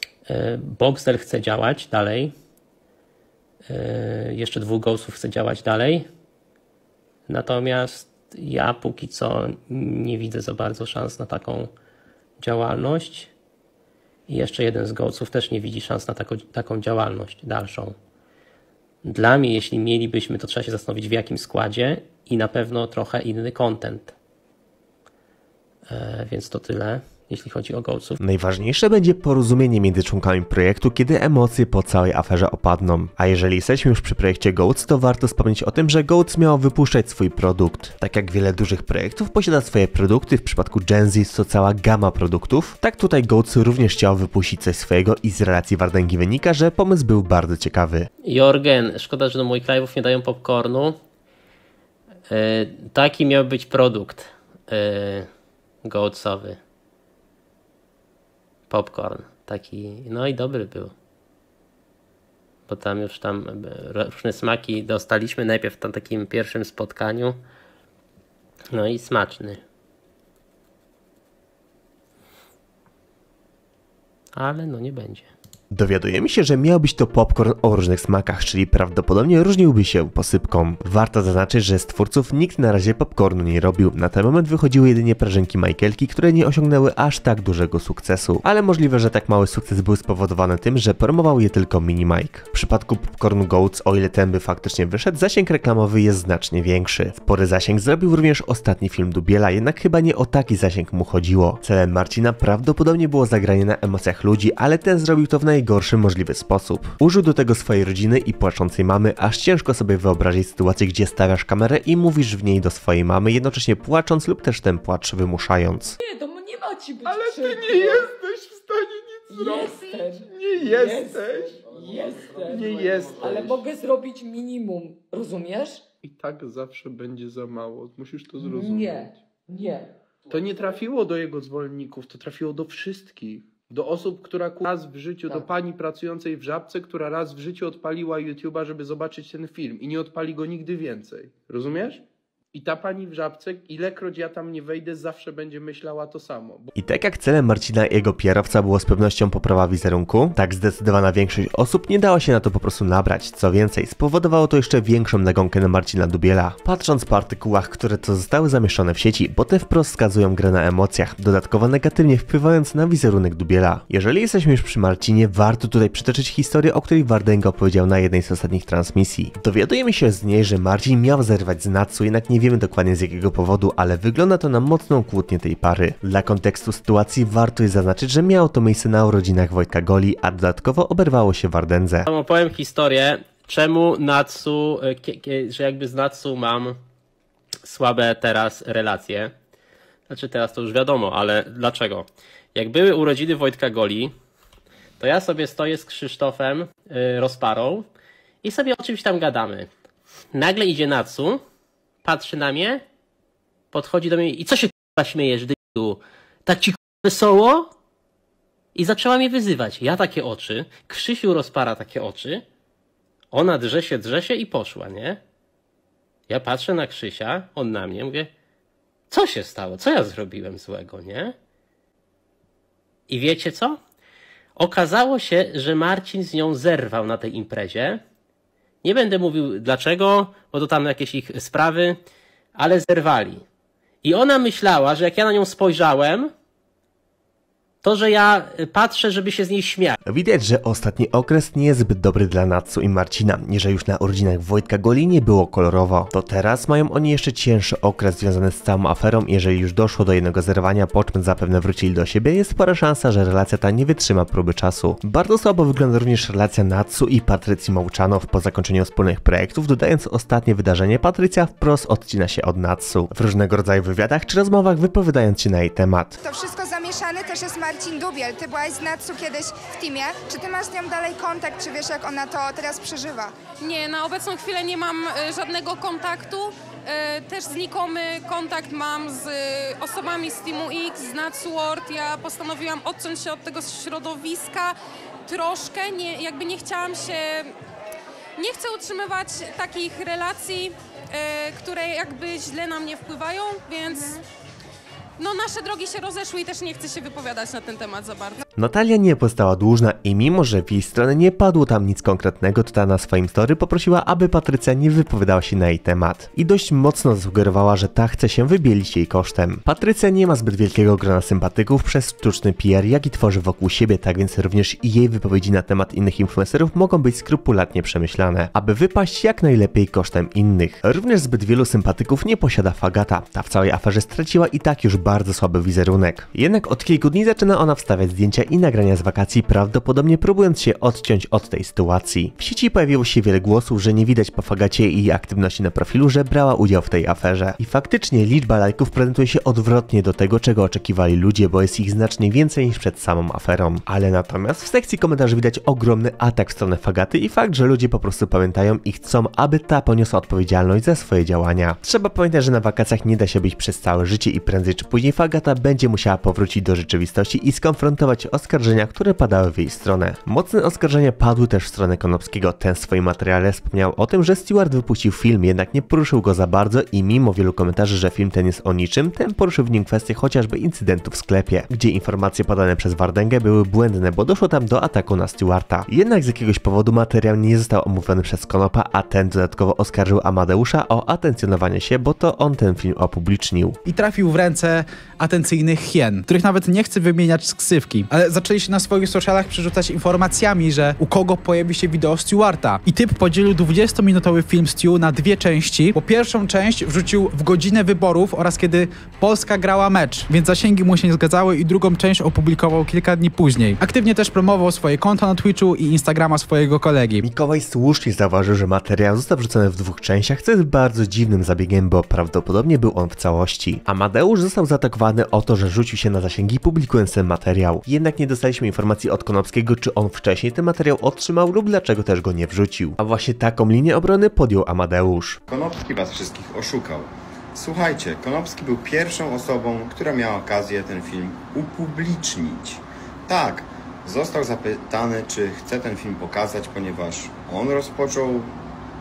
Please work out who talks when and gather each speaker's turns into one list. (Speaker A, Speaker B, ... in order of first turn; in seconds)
Speaker A: 0.3-2.3, 3.7-6.1, 7.3-11.7, 12.4-13.3, 14.3-17.9, 19.0-24.1, 25.9-28.2, 48.2-51.0, 52.3-55.3, 55.8-56.6, 58.7-60.9, 62.7-67.4, 68.7-69.6, 74.3-75.3, 182.1-186.8, 187.6-189.3, 190.1-194.1, 195.0-197.9, 198.4-199.7, 200.3-201.4, 202.0-202.8, 203.7-207.7, 208.7-212.4, 213.3-215.2, 216.3-218.3, 219.1-221.3, 223.1-223.8, 224.6-228.0, 228.8-232.0, 232.5-233.4, 234.0-236.3, 237.8-240.0
Speaker B: 28.2-48.1, 75.7-115.9, 146.8-182.1, 240.1-266.2, 298.6-383.8, 407.2-425.4
Speaker C: 116.0-118.1, 119.3-125.8, 128.4-129.9
Speaker D: 117.0-121.8, 122.4-123.6, 126.0-129.2, 130.3-146.7
Speaker E: 266.2-273.3
Speaker F: 273.6-284.7, 285.2-287.5, 288.4-294.2, 295.2-298.4
Speaker G: 383.9-407.2
Speaker H: 425.5-438.5